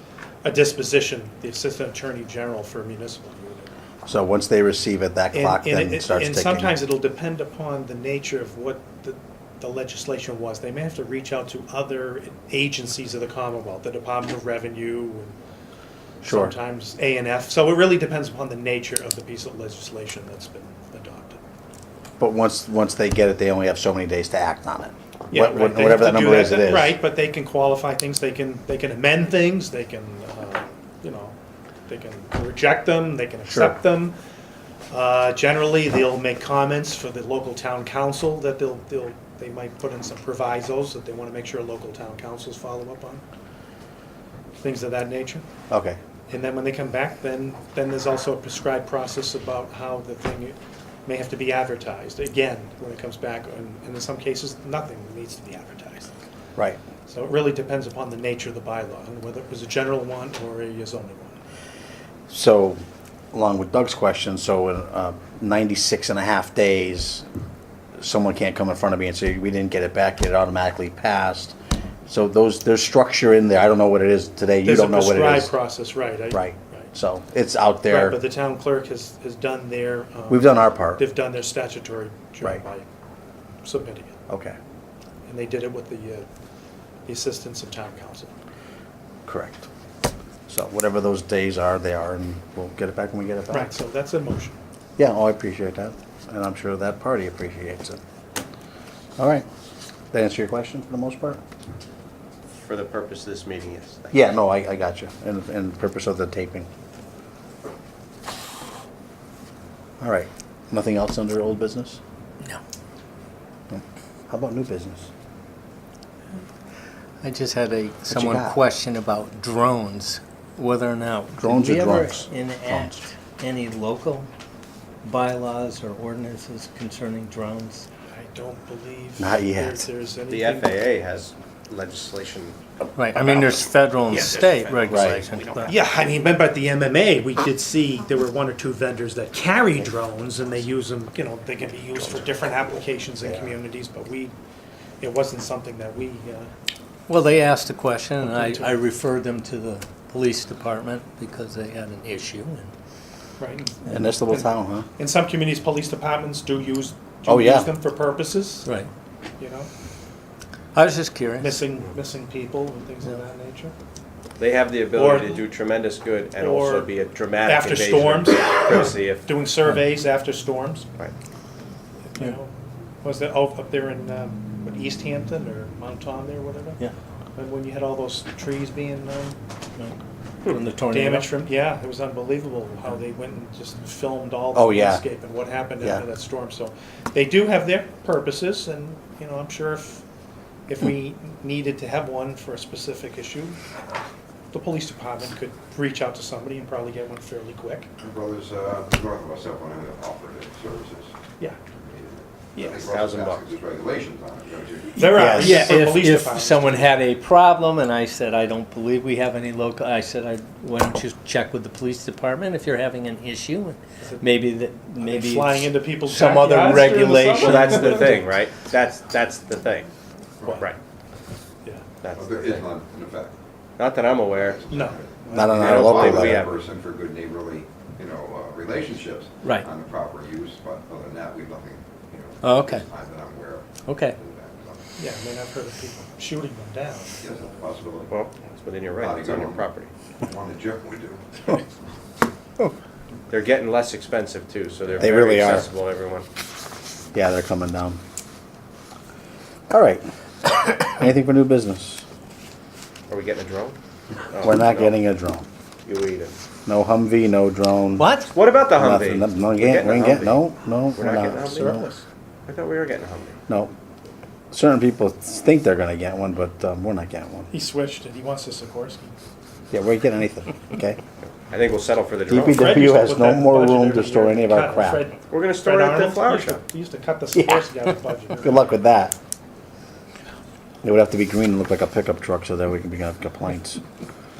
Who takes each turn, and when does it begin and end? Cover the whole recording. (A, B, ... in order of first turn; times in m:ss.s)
0:00.4-0:03.7 A
0:04.0-0:06.8 B
0:05.3-0:15.4 A
0:16.2-0:21.4 A
0:16.2-0:16.5 B
0:22.2-0:27.0 B
0:25.3-0:31.4 A
0:31.9-0:34.2 A
0:33.5-0:33.8 B
0:34.9-0:43.2 A
0:44.6-0:45.4 A
0:45.7-0:46.0 B
0:46.3-0:56.1 A
0:57.0-1:01.4 A
1:02.3-1:02.8 B
1:03.3-1:07.2 B
1:08.0-1:11.6 B
1:12.1-1:15.5 B
1:14.6-1:16.9 A
1:16.3-1:18.2 B
1:17.9-1:22.9 A
1:20.3-1:21.0 B
1:23.6-1:24.1 A
1:24.3-1:24.6 B
1:25.2-1:26.3 A
1:27.0-1:28.3 A
1:29.2-1:29.7 B
1:30.5-1:33.7 B
1:33.5-1:34.6 A
1:35.0-1:38.0 B
1:39.2-1:39.4 B
1:40.1-1:41.4 B
1:42.6-1:44.2 C
1:44.1-1:46.7 B
1:50.0-1:52.0 B
1:53.7-1:55.1 B
1:57.2-2:04.3 D
1:58.1-1:58.6 B
2:01.4-2:03.0 B
2:05.0-2:07.9 D
2:08.1-2:10.8 A
2:09.2-2:09.8 B
2:10.3-2:15.7 C
2:13.0-2:15.8 D
2:14.9-2:15.2 B
2:15.7-2:24.3 A
2:25.0-2:26.5 A
2:27.1-2:32.7 D
2:28.2-2:28.8 A
2:33.4-2:38.7 A
2:33.9-2:34.9 B
2:37.2-2:37.7 B
2:38.6-2:38.9 D
2:39.4-2:39.7 A
2:40.7-2:41.6 D
2:41.4-2:43.7 A
2:44.4-2:49.3 C
2:44.9-2:45.5 A
2:46.4-2:46.9 A
2:47.4-2:50.9 A
2:52.1-2:52.5 A
2:53.0-2:56.8 A
2:57.4-2:59.4 A
2:59.8-3:01.3 D
3:00.9-3:10.0 A
3:04.5-3:05.0 B
3:10.7-3:13.6 A
3:14.5-3:17.9 A
3:18.0-3:21.1 E
3:21.7-3:25.4 E
3:22.5-3:22.8 A
3:22.7-3:23.5 C
3:24.9-3:27.0 A
3:25.0-3:38.2 D
3:25.1-3:25.6 B
3:34.0-3:34.4 A
3:35.0-3:38.2 A
3:37.4-3:39.9 C
3:40.4-3:40.7 E
3:40.5-3:40.8 C
3:42.0-3:42.7 C
3:42.1-3:43.3 E
3:43.8-3:44.6 C
3:44.3-3:54.8 E
3:44.7-3:45.6 A
3:45.3-3:46.5 B
3:45.5-3:46.6 C
3:49.4-3:49.7 D
3:52.4-3:52.9 D
3:53.8-3:54.2 D
3:55.0-3:57.2 A
3:57.2-3:58.1 E
3:58.1-3:59.9 C
3:58.9-3:59.7 E
4:00.2-4:01.6 E
4:03.3-4:06.3 C
4:05.0-4:05.7 B
4:07.1-4:08.0 B
4:09.7-4:12.0 B
4:13.1-4:13.8 C
4:14.3-4:15.0 C
4:14.4-4:15.4 B
4:15.8-4:16.3 C
4:16.6-4:18.1 B
4:18.0-4:18.3 D
4:18.3-4:20.4 C
4:18.7-4:21.9 B
4:20.9-4:21.9 C
4:22.5-4:23.4 C
4:23.5-4:23.7 B
4:24.5-4:27.5 B
4:27.5-4:29.2 A
4:29.7-4:31.0 B
4:31.3-4:32.7 C
4:32.3-4:35.1 B
4:32.4-4:38.8 A
4:35.3-4:36.6 C
4:37.3-4:37.7 B
4:38.4-4:39.1 B
4:40.8-4:43.8 B